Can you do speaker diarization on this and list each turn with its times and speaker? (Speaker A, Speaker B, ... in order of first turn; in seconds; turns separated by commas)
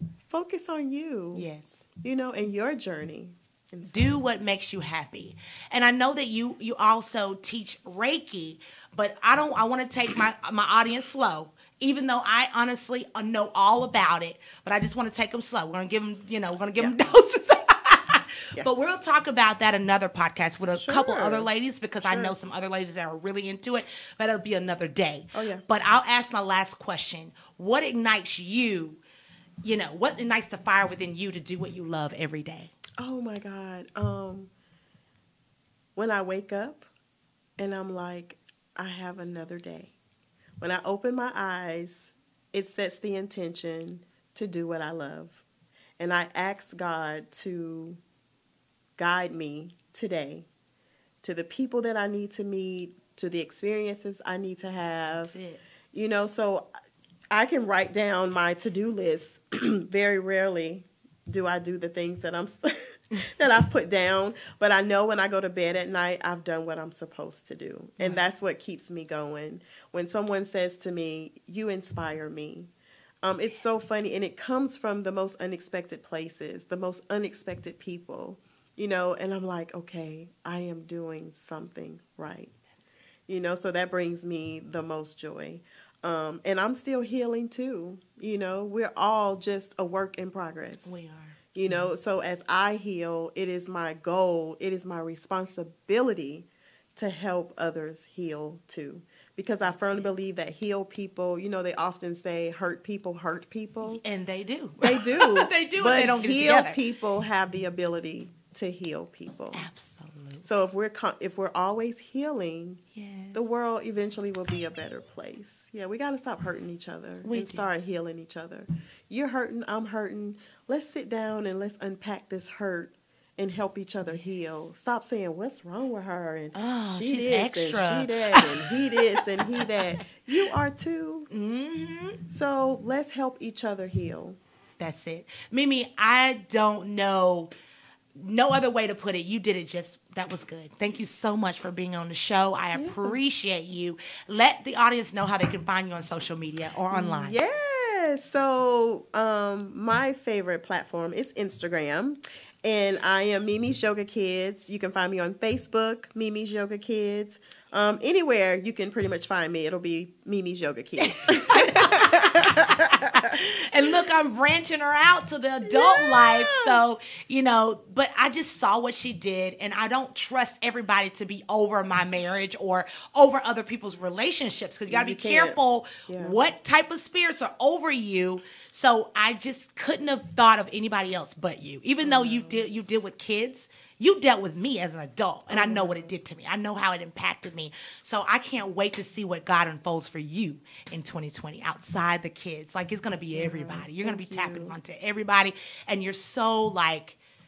Speaker A: 0.3-1.5, Speaker B: 1.3-1.8, Speaker A: 2.0-4.2, Speaker B: 3.9-29.0, Speaker A: 20.8-21.5, Speaker A: 22.0-22.4, Speaker A: 25.3-25.6, Speaker B: 29.6-32.7, Speaker A: 33.0-34.5, Speaker A: 36.0-36.9, Speaker A: 37.6-39.9, Speaker A: 40.6-45.4, Speaker A: 46.0-48.0, Speaker A: 49.0-50.5, Speaker A: 51.2-55.4, Speaker B: 55.2-55.6, Speaker A: 55.9-56.7, Speaker A: 57.3-72.7, Speaker B: 68.0-68.3, Speaker A: 73.2-82.5, Speaker A: 83.3-90.9, Speaker B: 90.8-91.9, Speaker A: 91.5-104.0, Speaker B: 99.6-100.1, Speaker B: 103.8-106.8, Speaker A: 104.8-109.7, Speaker B: 109.5-110.5, Speaker A: 110.4-112.8, Speaker B: 112.9-113.4, Speaker A: 113.3-131.3, Speaker B: 117.2-117.7, Speaker B: 126.5-129.6, Speaker B: 131.3-132.2, Speaker A: 132.3-134.4, Speaker B: 134.8-137.5, Speaker B: 138.1-147.4, Speaker A: 142.7-143.2, Speaker A: 146.9-163.4, Speaker B: 161.0-197.2, Speaker A: 165.7-166.8, Speaker A: 174.9-176.4, Speaker A: 182.0-182.6, Speaker A: 185.5-186.1, Speaker A: 193.3-194.8